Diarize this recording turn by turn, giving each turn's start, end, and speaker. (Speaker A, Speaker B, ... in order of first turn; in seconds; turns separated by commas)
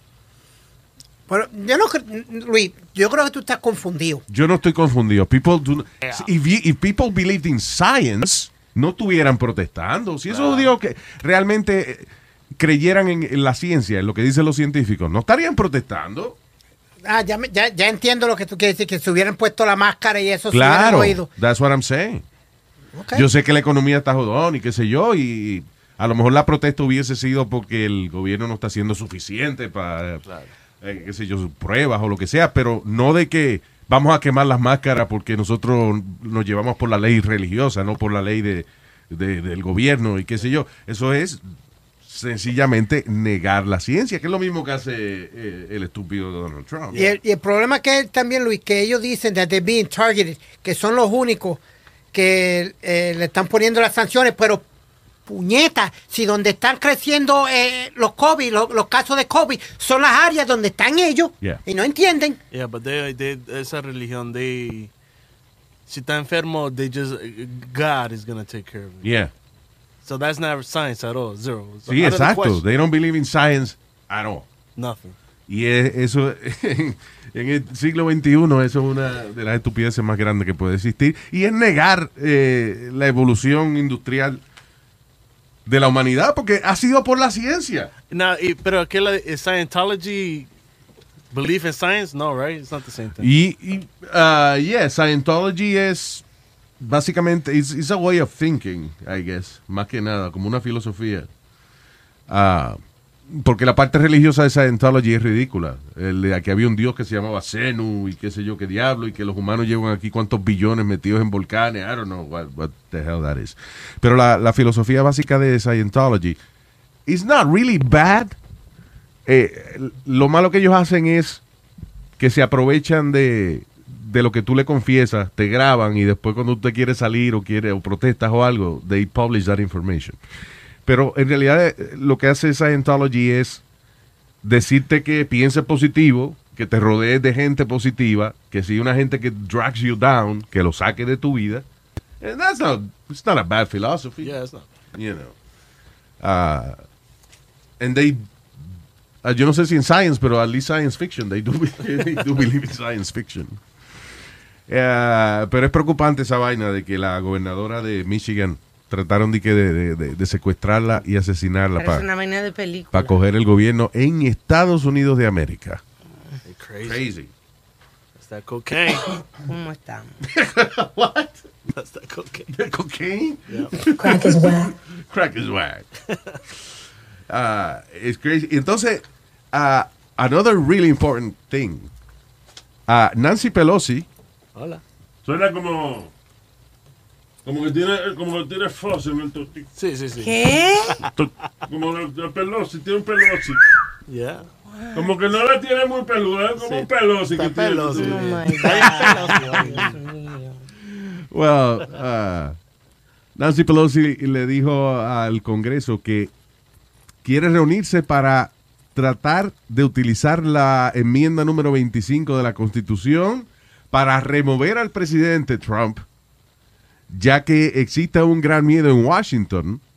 Speaker A: 1.3-4.2, Speaker B: 4.3-16.4, Speaker C: 10.3-10.7, Speaker A: 17.0-21.3, Speaker B: 20.5-22.2, Speaker A: 22.9-23.3, Speaker B: 23.1-30.2, Speaker B: 30.8-41.4, Speaker B: 42.0-47.0, Speaker C: 46.9-47.2, Speaker A: 46.9-51.6, Speaker A: 52.1-54.6, Speaker A: 55.3-62.4, Speaker C: 62.5-64.9, Speaker C: 65.9-69.1, Speaker B: 69.0-69.3, Speaker C: 70.0-72.6, Speaker B: 71.9-74.5, Speaker C: 74.8-75.2, Speaker B: 75.5-84.4, Speaker B: 85.7-87.9, Speaker C: 88.1-90.5, Speaker C: 91.3-93.3, Speaker B: 93.2-96.2, Speaker B: 96.8-101.3, Speaker B: 102.3-116.4, Speaker B: 117.1-118.3, Speaker B: 119.2-121.4, Speaker B: 122.2-130.2, Speaker B: 130.8-133.6, Speaker B: 134.4-141.6, Speaker B: 142.2-144.3, Speaker C: 144.2-144.7, Speaker B: 144.9-145.3, Speaker B: 146.2-146.8, Speaker B: 147.8-148.3, Speaker B: 149.2-153.6, Speaker B: 154.7-162.1, Speaker D: 161.8-163.2, Speaker B: 162.9-165.8, Speaker C: 166.4-167.0, Speaker B: 166.8-167.3, Speaker C: 168.2-169.2, Speaker D: 169.5-170.2, Speaker B: 170.2-171.4, Speaker C: 171.7-172.5, Speaker B: 172.5-175.9, Speaker C: 173.5-173.7, Speaker C: 176.1-176.4, Speaker B: 177.3-181.9, Speaker B: 182.9-184.1, Speaker C: 184.5-184.8, Speaker E: 185.2-186.1, Speaker E: 187.4-189.7, Speaker C: 189.7-191.1, Speaker D: 190.2-191.0, Speaker E: 191.1-193.6, Speaker C: 194.1-194.5, Speaker D: 194.7-195.1, Speaker E: 194.9-198.3, Speaker C: 196.6-200.0, Speaker D: 197.9-200.6, Speaker B: 201.3-202.6, Speaker B: 203.3-206.3, Speaker B: 207.2-216.0, Speaker B: 217.1-219.8